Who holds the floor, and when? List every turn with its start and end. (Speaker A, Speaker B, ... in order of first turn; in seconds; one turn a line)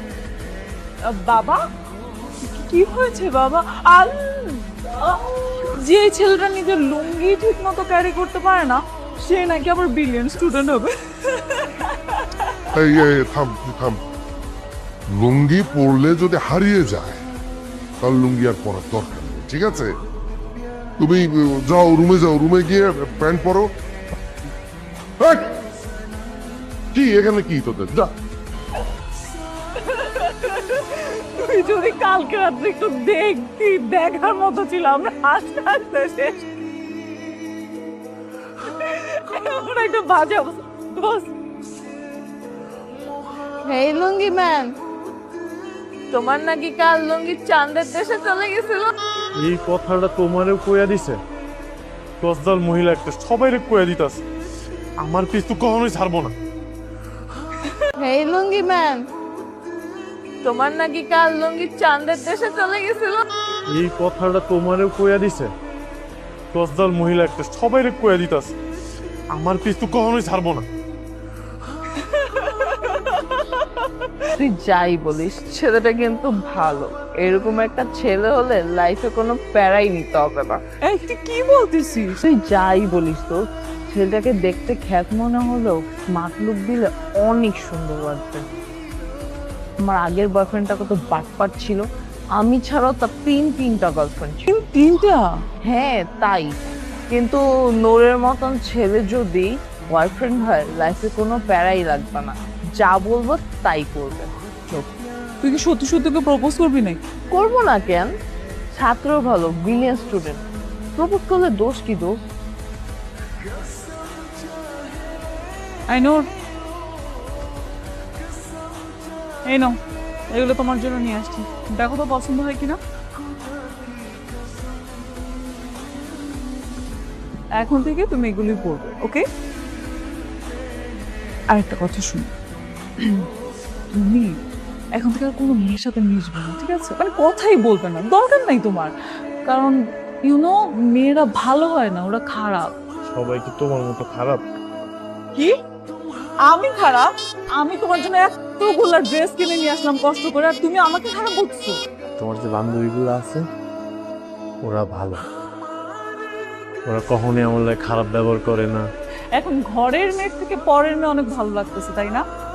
Speaker A: 1.0-1.6
Speaker A: 2.4-12.7
Speaker B: 12.7-14.0
Speaker B: 15.1-17.2
Speaker B: 18.0-19.9
Speaker B: 21.0-23.7
Speaker B: 25.2-25.6
Speaker B: 26.9-28.1
Speaker A: 29.8-36.4
Speaker A: 38.6-41.3
Speaker C: 43.6-44.8
Speaker C: 46.1-48.9
Speaker D: 49.3-51.2
Speaker D: 52.2-54.2
Speaker D: 55.0-56.3
Speaker C: 58.0-59.1
Speaker C: 60.4-63.2
Speaker D: 63.7-65.5
Speaker D: 66.5-68.5
Speaker D: 69.3-70.7
Speaker A: 72.0-74.1
Speaker C: 74.3-80.6
Speaker A: 80.8-82.2
Speaker C: 82.2-88.4
Speaker C: 89.8-91.8
Speaker C: 92.4-94.4
Speaker A: 94.5-95.4
Speaker C: 95.6-104.9
Speaker A: 105.4-107.1
Speaker C: 107.3-108.1
Speaker C: 108.7-110.4
Speaker C: 111.0-112.2
Speaker A: 115.9-116.2
Speaker A: 119.5-119.8
Speaker A: 120.3-122.8
Speaker A: 127.5-129.2
Speaker A: 131.5-132.3
Speaker A: 133.0-133.2
Speaker A: 133.9-134.3
Speaker A: 135.0-138.9
Speaker A: 139.4-142.7
Speaker D: 143.1-144.4
Speaker A: 146.5-151.8
Speaker D: 152.1-153.5
Speaker D: 154.6-155.2
Speaker D: 156.8-158.9
Speaker A: 159.4-162.2